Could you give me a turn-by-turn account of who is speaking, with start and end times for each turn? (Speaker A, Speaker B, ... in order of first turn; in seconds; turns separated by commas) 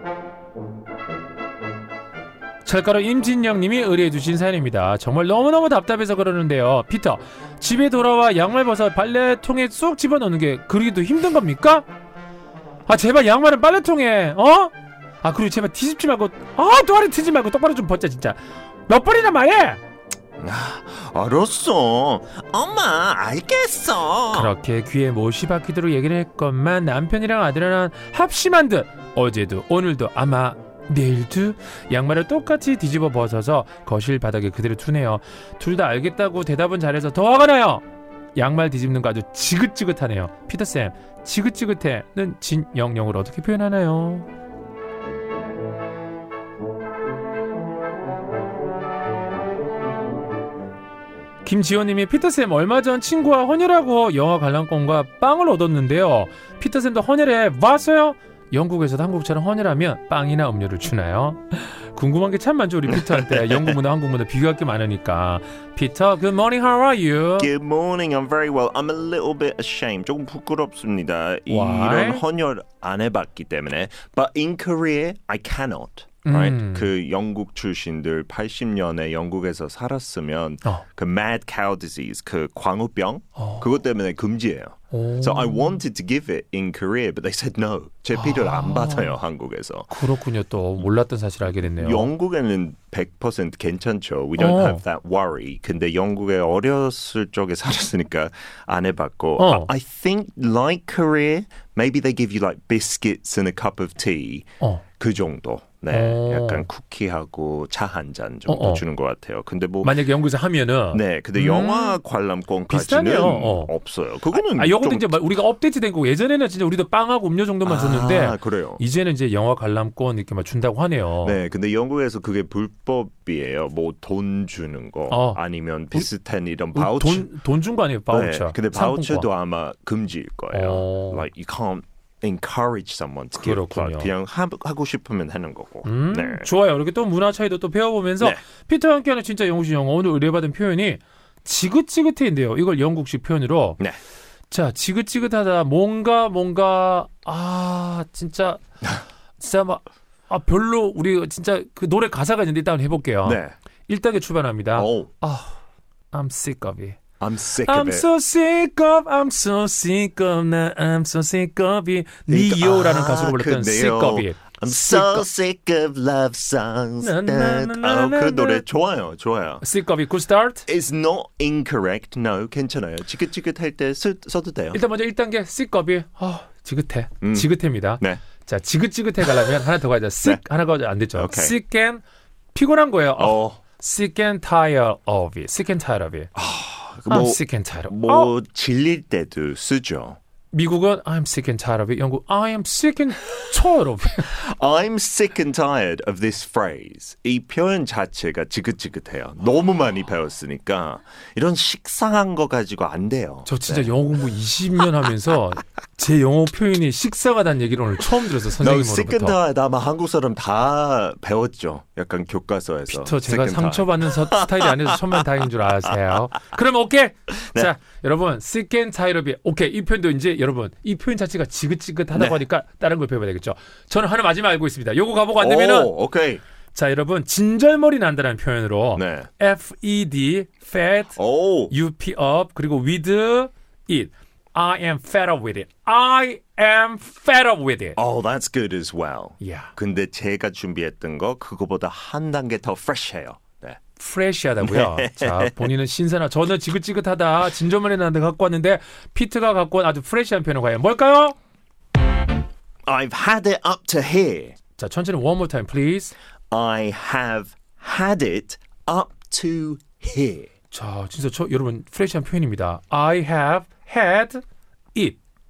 Speaker A: 2.6-11.8, Speaker A: 12.9-18.4, Speaker A: 18.9-19.8, Speaker B: 20.4-24.5, Speaker A: 24.3-37.8, Speaker A: 38.4-44.3, Speaker A: 51.4-67.5, Speaker B: 62.9-63.8, Speaker B: 67.4-89.9, Speaker A: 71.5-72.2, Speaker A: 76.2-76.9, Speaker A: 83.4-83.6, Speaker A: 84.9-85.8, Speaker A: 88.2-89.1, Speaker A: 89.9-92.1, Speaker B: 91.7-104.5, Speaker A: 94.4-94.8, Speaker A: 99.4-99.7, Speaker B: 105.0-109.9, Speaker A: 105.9-106.7, Speaker A: 108.5-108.8, Speaker A: 109.8-112.0, Speaker B: 110.9-115.2, Speaker A: 112.7-113.7, Speaker A: 114.3-121.4, Speaker B: 117.6-118.8, Speaker B: 121.2-127.3, Speaker A: 125.1-125.4, Speaker A: 126.7-129.3, Speaker B: 128.1-136.5, Speaker A: 130.5-131.2, Speaker A: 133.3-134.1, Speaker A: 135.8-143.8, Speaker A: 144.5-148.6, Speaker A: 149.4-155.6, Speaker B: 153.2-153.5, Speaker B: 154.8-155.1, Speaker A: 156.1-157.0, Speaker B: 157.2-158.1, Speaker A: 157.6-165.2, Speaker B: 162.3-169.6, Speaker A: 167.0-168.6, Speaker A: 169.6-170.6, Speaker B: 170.7-174.8, Speaker A: 174.7-182.0, Speaker B: 177.2-178.2, Speaker B: 181.1-181.5, Speaker A: 182.5-186.3, Speaker B: 183.2-183.6, Speaker B: 186.3-190.2, Speaker A: 187.1-188.3, Speaker A: 190.5-194.3, Speaker B: 194.2-203.9, Speaker A: 203.4-209.4, Speaker B: 208.6-215.2, Speaker A: 212.9-225.9, Speaker B: 222.1-222.4, Speaker B: 225.4-226.4, Speaker A: 226.7-238.0, Speaker B: 228.9-229.3, Speaker B: 231.2-231.7, Speaker B: 238.0-243.8, Speaker A: 239.4-239.7, Speaker A: 244.0-251.3, Speaker B: 244.6-245.6, Speaker B: 252.8-254.6, Speaker A: 254.8-256.1, Speaker B: 256.5-260.5, Speaker A: 260.7-264.4